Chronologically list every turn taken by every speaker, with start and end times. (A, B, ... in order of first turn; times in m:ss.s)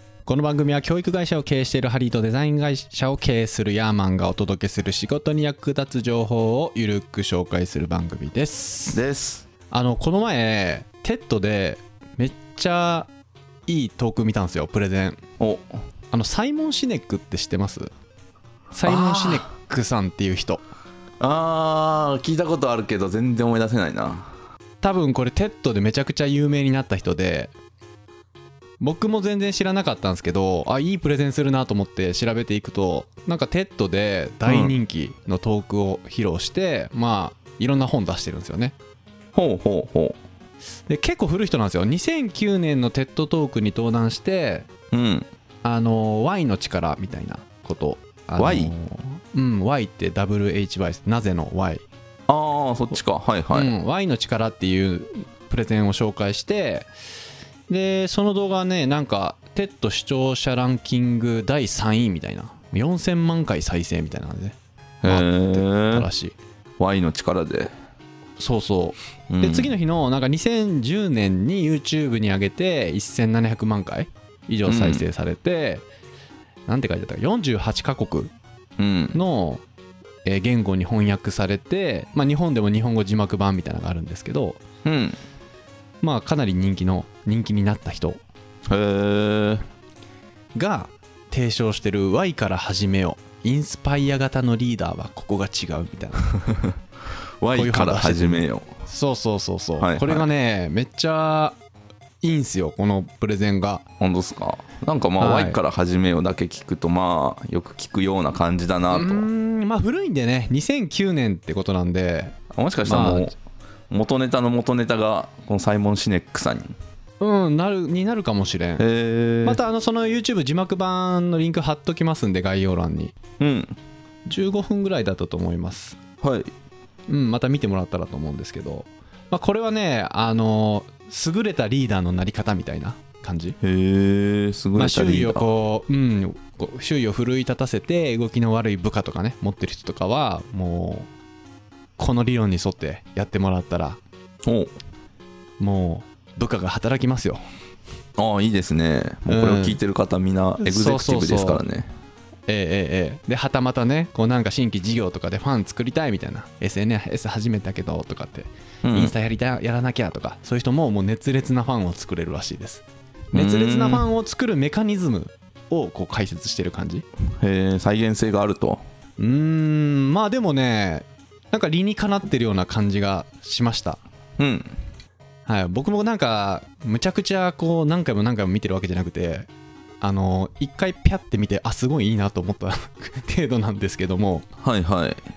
0:00.2-0:09.0 A
0:08.9-0:09.5 B
0:09.7-0:13.1 A
0:13.7-0:15.2 A
0:15.4-0:15.7 B
0:16.1-0:17.9 A
0:18.7-0:20.6 A
0:18.8-0:19.5 B
0:21.2-0:24.3 B
0:24.8-0:27.5 A
0:28.8-0:38.7 A
0:34.4-0:34.7 B
0:39.3-0:40.2 B
0:40.9-0:44.7 A
0:44.9-0:45.3 B
0:45.6-0:51.8 A
0:48.4-0:48.7 B
0:52.3-0:53.7 B
0:53.5-0:56.9 A
0:57.7-1:06.4 A
1:05.0-1:06.1 B
1:06.8-1:07.7 B
1:08.4-1:15.8 A
1:09.3-1:09.7 B
1:14.6-1:15.0 B
1:16.7-1:18.3 A
1:18.8-1:19.2 B
1:19.1-1:19.6 A
1:20.2-1:24.6 A
1:24.8-1:25.2 B
1:26.0-1:28.2 A
1:28.7-1:29.6 B
1:30.5-1:36.4 A
1:36.4-1:36.7 B
1:37.4-1:38.7 B
1:37.5-1:41.6 A
1:39.8-1:40.2 B
1:42.2-1:43.8 A
1:44.0-1:49.3 B
1:45.2-1:45.6 A
1:48.9-1:53.3 A
1:52.5-1:53.3 B
1:53.9-1:56.7 B
1:57.2-1:58.8 A
1:58.8-1:59.6 B
1:59.4-2:03.2 A
2:03.4-2:03.8 B
2:04.2-2:06.0 A
2:06.2-2:06.5 B
2:07.1-2:13.6 A
2:13.6-2:15.4 B
2:14.8-2:21.1 A
2:22.0-2:24.0 A
2:24.4-2:24.7 B
2:25.6-2:27.4 A
2:28.2-2:31.9 B
2:29.3-2:29.8 A
2:30.6-2:31.6 A
2:32.5-2:47.0 A
2:38.8-2:39.1 B
2:43.3-2:44.0 B
2:47.4-2:48.8 B
2:49.2-2:54.0 A
2:54.4-2:54.7 B
2:55.4-2:59.5 A
3:00.0-3:04.4 A
3:04.6-3:05.2 B